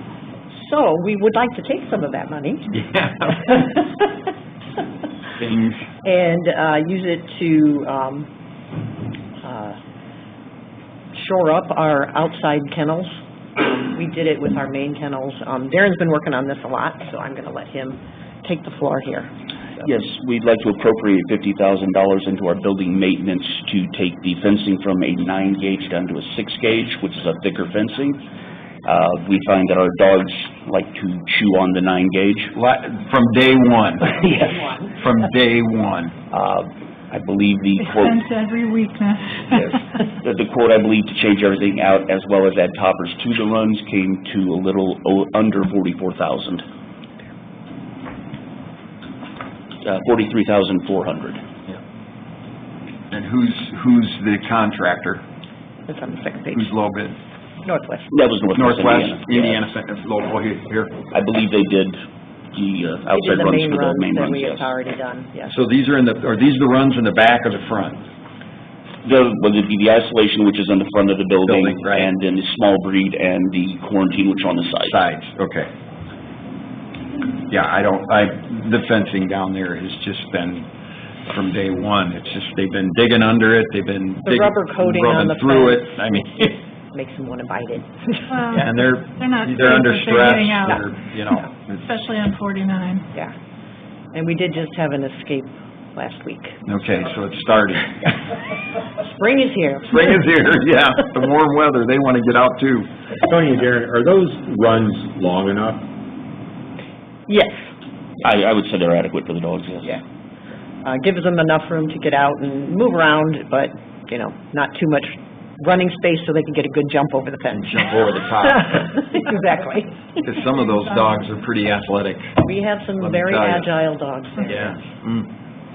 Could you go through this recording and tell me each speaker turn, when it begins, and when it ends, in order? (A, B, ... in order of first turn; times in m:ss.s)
0:00.5-0:02.8 A
0:02.7-0:03.6 B
0:03.4-0:04.0 A
0:05.4-0:05.8 B
0:06.0-0:08.3 A
0:09.4-0:09.8 A
0:11.1-0:19.3 A
0:19.8-0:28.2 C
0:28.8-0:32.6 C
0:32.5-0:34.3 B
0:34.3-0:35.0 A
0:34.9-0:36.2 B
0:36.3-0:38.2 C
0:37.8-0:39.7 D
0:39.5-0:46.6 C
0:49.8-0:51.4 C
0:53.1-0:55.2 B
0:55.9-0:56.7 A
0:56.5-0:57.2 B
0:57.6-0:58.1 A
0:58.1-0:59.7 C
0:58.6-1:01.0 B
1:01.1-1:02.0 C
1:02.5-1:04.7 C
1:03.1-1:05.5 A
1:05.5-1:08.1 B
1:09.0-1:15.0 C
1:11.5-1:12.1 B
1:14.8-1:15.7 B
1:17.5-1:20.7 B
1:21.3-1:26.5 B
1:24.2-1:28.6 A
1:28.3-1:33.1 D
1:28.5-1:31.9 B
1:34.1-1:36.6 A
1:36.6-1:38.2 B
1:39.0-1:40.2 A
1:39.9-1:42.9 B
1:43.3-1:45.9 E
1:47.3-1:47.6 A
1:48.2-1:50.0 C
1:50.8-2:00.1 A
1:57.5-1:58.9 B
2:00.2-2:02.4 B
2:02.4-2:04.8 A
2:03.0-2:03.7 B
2:04.4-2:05.3 B